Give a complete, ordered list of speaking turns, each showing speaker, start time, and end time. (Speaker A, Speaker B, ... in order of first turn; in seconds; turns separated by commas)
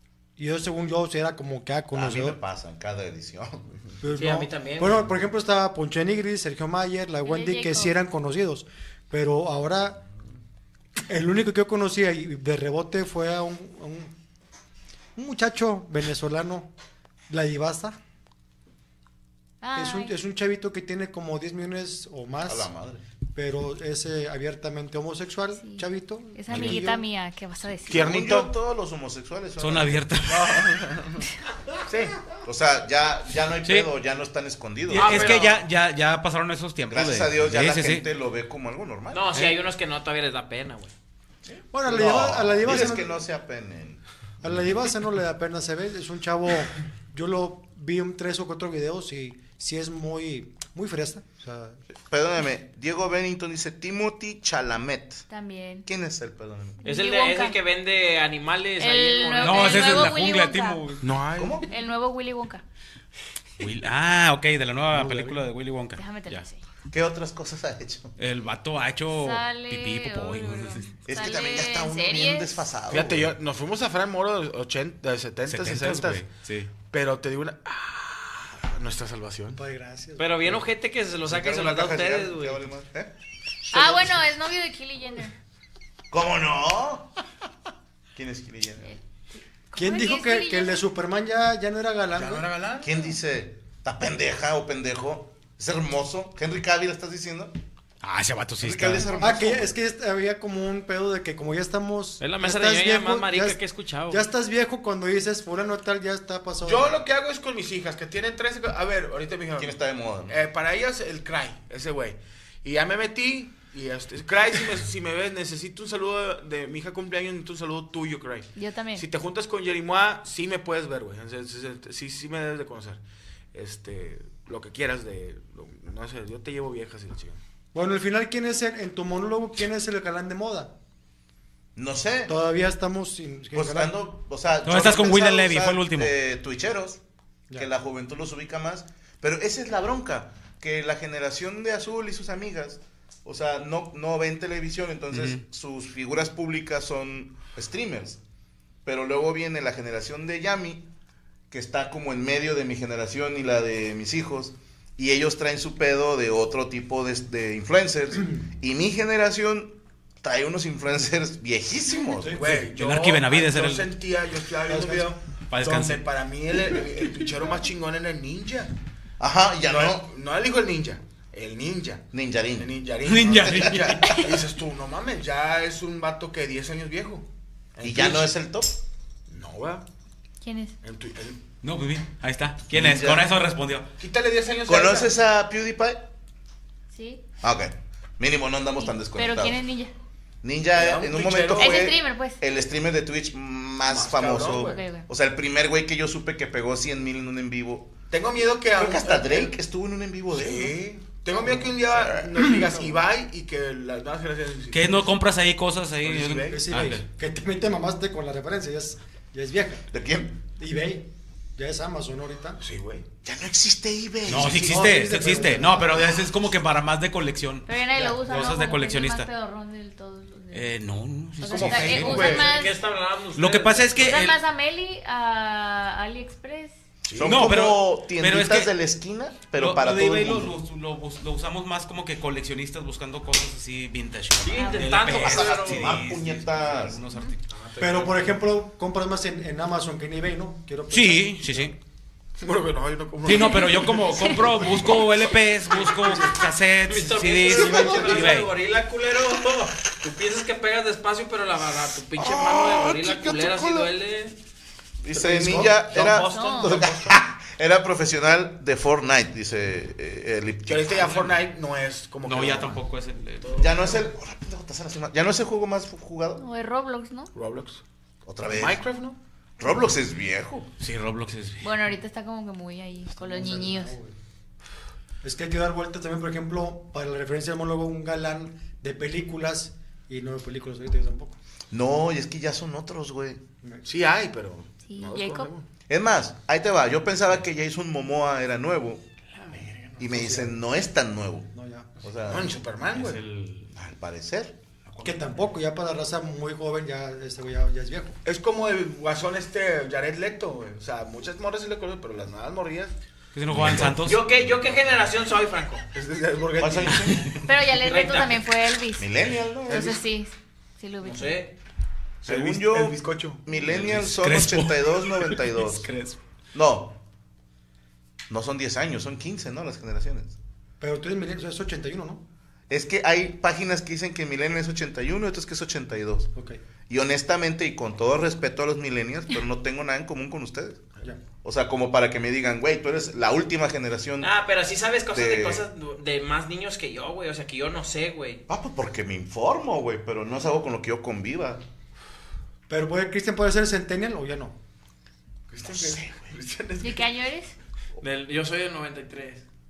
Speaker A: 0.4-2.4, Speaker B: 1.9-3.9, Speaker A: 4.0-10.0, Speaker C: 4.1-5.1, Speaker D: 7.2-7.9, Speaker A: 11.1-14.1, Speaker A: 15.2-16.7, Speaker A: 17.3-18.0, Speaker D: 19.6-20.1, Speaker A: 19.7-22.7, Speaker B: 22.4-23.0, Speaker A: 23.3-27.1, Speaker D: 25.6-28.1, Speaker B: 26.5-26.8, Speaker E: 27.9-28.5, Speaker B: 27.9-30.1, Speaker F: 29.6-30.8, Speaker E: 30.3-31.2, Speaker E: 31.9-32.2, Speaker B: 32.4-35.4, Speaker F: 33.6-33.9, Speaker F: 34.9-38.0, Speaker C: 34.9-35.6, Speaker B: 36.9-39.4, Speaker C: 39.1-40.9, Speaker B: 41.5-44.0, Speaker A: 41.7-43.1, Speaker A: 44.4-51.8, Speaker B: 52.0-55.3, Speaker D: 55.3-55.9, Speaker B: 55.9-56.8, Speaker D: 56.8-57.6, Speaker C: 56.8-60.1, Speaker D: 58.8-60.9, Speaker F: 59.4-61.1, Speaker E: 61.0-61.6, Speaker B: 61.4-61.7, Speaker D: 61.6-62.6, Speaker F: 63.6-66.5, Speaker A: 64.9-65.4, Speaker D: 65.9-66.6, Speaker B: 66.9-68.2, Speaker F: 68.2-71.0, Speaker D: 69.1-72.7, Speaker B: 71.0-73.3, Speaker E: 72.9-76.3, Speaker F: 75.5-76.7, Speaker E: 76.8-79.6, Speaker A: 79.5-80.6, Speaker C: 80.2-82.6, Speaker B: 81.2-83.1, Speaker D: 83.7-85.3, Speaker B: 86.1-87.1, Speaker B: 88.1-88.9, Speaker D: 88.8-90.8, Speaker A: 89.7-92.5, Speaker E: 92.1-93.1, Speaker B: 92.8-97.5, Speaker F: 98.0-99.1, Speaker B: 98.6-99.7, Speaker A: 99.1-103.6, Speaker C: 102.2-104.2, Speaker A: 104.1-107.0, Speaker E: 106.6-123.0, Speaker B: 109.6-110.4, Speaker D: 118.5-119.0, Speaker E: 123.5-127.4, Speaker A: 127.7-130.7, Speaker B: 131.8-132.3, Speaker A: 132.3-134.0, Speaker B: 133.5-137.0, Speaker F: 134.6-136.1, Speaker B: 137.6-148.2, Speaker F: 145.1-145.4, Speaker B: 148.8-150.9, Speaker B: 151.5-162.4, Speaker A: 162.2-162.6, Speaker E: 162.3-168.7, Speaker F: 162.7-163.9, Speaker A: 164.7-165.1, Speaker F: 165.5-166.0, Speaker B: 169.2-170.1, Speaker E: 169.6-172.0, Speaker B: 172.1-172.8, Speaker E: 172.6-178.3, Speaker F: 173.1-174.2, Speaker B: 173.3-173.9, Speaker B: 177.8-178.8, Speaker E: 179.3-179.8, Speaker D: 180.4-180.7, Speaker E: 180.8-181.4, Speaker F: 181.6-183.9, Speaker B: 182.7-183.3, Speaker E: 184.0-185.1, Speaker B: 184.7-186.0, Speaker D: 186.9-187.2, Speaker B: 187.4-189.6, Speaker D: 188.8-189.9, Speaker B: 190.4-197.9, Speaker E: 190.7-191.9, Speaker D: 191.6-192.4, Speaker E: 193.8-194.9, Speaker D: 194.5-195.1, Speaker E: 198.1-199.6, Speaker B: 198.7-200.8, Speaker E: 200.3-205.1, Speaker B: 201.7-202.6, Speaker F: 204.7-207.0, Speaker E: 206.0-206.8, Speaker A: 206.5-209.8, Speaker B: 209.9-210.4, Speaker A: 210.6-212.6, Speaker E: 212.6-213.0, Speaker B: 213.2-215.0, Speaker F: 214.2-217.7, Speaker A: 214.5-216.1, Speaker D: 217.7-220.7, Speaker A: 217.9-218.4, Speaker F: 218.2-219.3, Speaker F: 220.5-222.4, Speaker D: 221.4-222.8, Speaker E: 221.4-222.6, Speaker C: 222.3-224.1, Speaker F: 223.3-224.4, Speaker D: 223.9-226.7, Speaker E: 227.1-227.5, Speaker B: 227.1-230.6, Speaker F: 227.2-228.7, Speaker F: 229.5-237.4, Speaker C: 234.4-235.9, Speaker D: 234.6-235.0, Speaker B: 235.0-237.0, Speaker A: 237.8-241.7, Speaker F: 240.9-241.7, Speaker E: 242.4-245.0, Speaker F: 243.2-248.5, Speaker C: 246.9-254.3, Speaker A: 247.4-248.4, Speaker B: 252.2-253.9, Speaker B: 255.0-261.0, Speaker A: 255.2-255.8, Speaker E: 255.3-257.1, Speaker C: 255.9-256.9, Speaker D: 256.2-256.8, Speaker E: 260.6-262.8, Speaker F: 261.0-261.4, Speaker F: 262.2-263.6, Speaker E: 263.4-264.1, Speaker B: 263.6-266.4, Speaker D: 266.4-267.3, Speaker E: 267.3-267.8, Speaker B: 268.2-268.8, Speaker E: 268.4-269.2, Speaker B: 269.6-270.7, Speaker F: 270.8-271.8, Speaker D: 271.6-273.9, Speaker A: 273.1-274.1, Speaker A: 275.2-281.4, Speaker B: 281.7-283.4, Speaker E: 283.8-285.6, Speaker D: 284.9-285.5, Speaker B: 285.9-289.0, Speaker B: 290.0-291.5, Speaker A: 290.0-290.5, Speaker A: 291.5-291.9, Speaker B: 292.0-292.5, Speaker E: 292.2-293.2, Speaker F: 292.9-293.7, Speaker B: 293.7-294.6, Speaker F: 294.9-295.2, Speaker A: 295.0-298.2, Speaker E: 298.2-302.9, Speaker F: 303.3-304.4, Speaker B: 303.5-304.1, Speaker C: 304.0-305.8, Speaker E: 305.9-307.3, Speaker B: 306.6-307.3, Speaker D: 307.4-309.1, Speaker C: 307.8-308.4, Speaker B: 309.0-309.9, Speaker E: 309.7-310.0, Speaker D: 309.7-311.4, Speaker C: 311.0-311.5, Speaker E: 312.2-313.4, Speaker B: 312.2-315.9, Speaker F: 313.6-316.2, Speaker B: 316.5-316.9, Speaker B: 318.3-320.4, Speaker A: 320.8-322.2, Speaker B: 322.7-326.3, Speaker A: 326.3-326.6, Speaker B: 326.9-330.8, Speaker B: 331.4-334.3, Speaker C: 334.2-338.4, Speaker B: 335.1-335.6, Speaker B: 338.5-341.6, Speaker A: 342.7-344.6, Speaker E: 345.5-347.1, Speaker B: 345.6-346.2, Speaker D: 346.8-347.5, Speaker C: 348.0-349.4